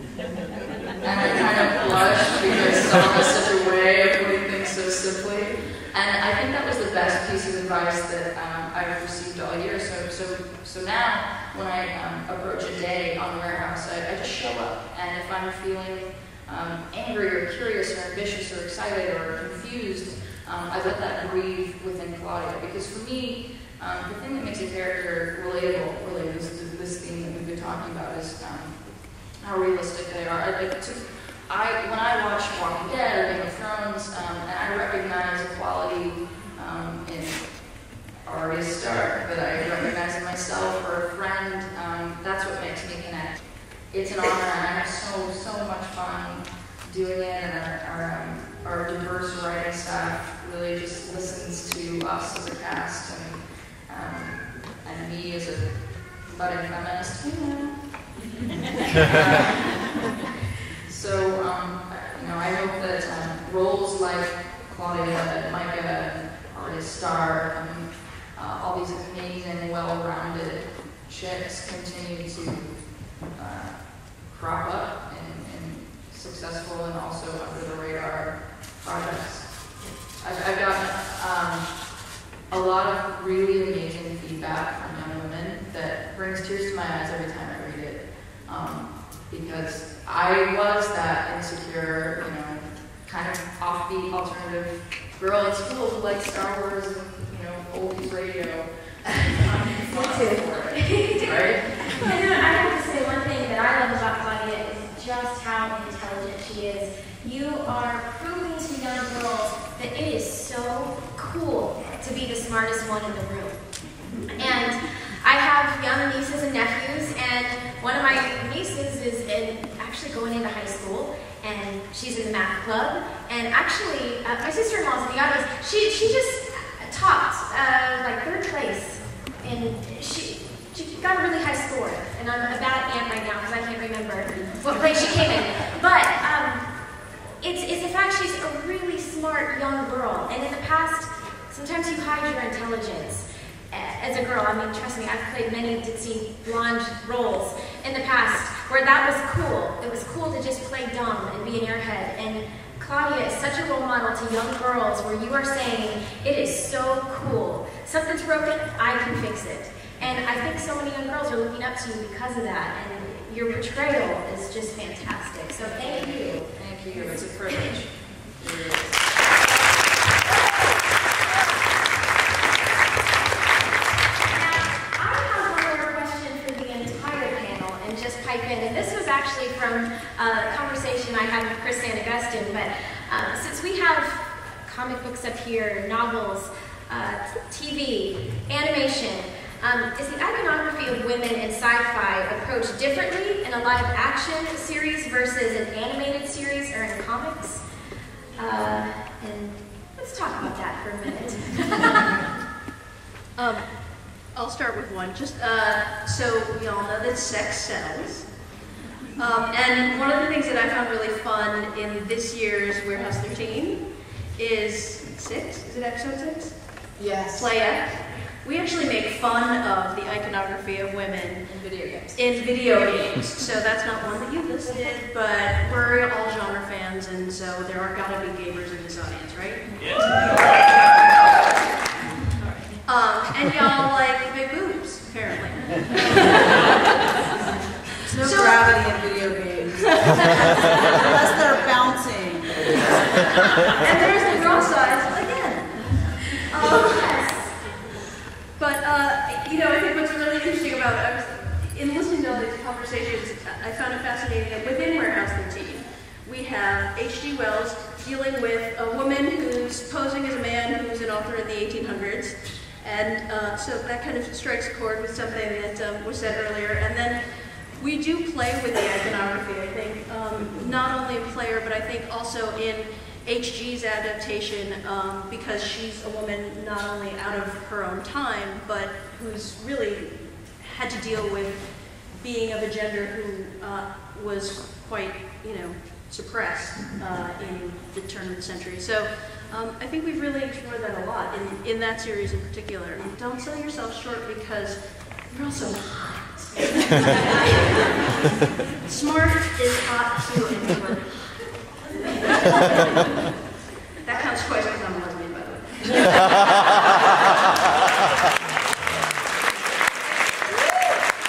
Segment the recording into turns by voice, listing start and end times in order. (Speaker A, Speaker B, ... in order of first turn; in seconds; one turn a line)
Speaker A: 1.0-59.9
Speaker A: 60.9-102.1
Speaker B: 99.9-167.8
Speaker A: 165.6-169.1
Speaker B: 174.3-197.6
Speaker B: 198.3-202.3
Speaker C: 203.3-208.6
Speaker C: 209.2-221.5
Speaker A: 217.0-217.5
Speaker A: 221.4-222.2
Speaker C: 222.1-236.6
Speaker C: 238.1-239.0
Speaker D: 238.1-240.4
Speaker C: 240.0-240.6
Speaker D: 241.0-242.5
Speaker C: 243.8-247.1
Speaker B: 246.6-247.5
Speaker C: 248.6-297.9
Speaker C: 298.9-301.6
Speaker C: 304.0-306.6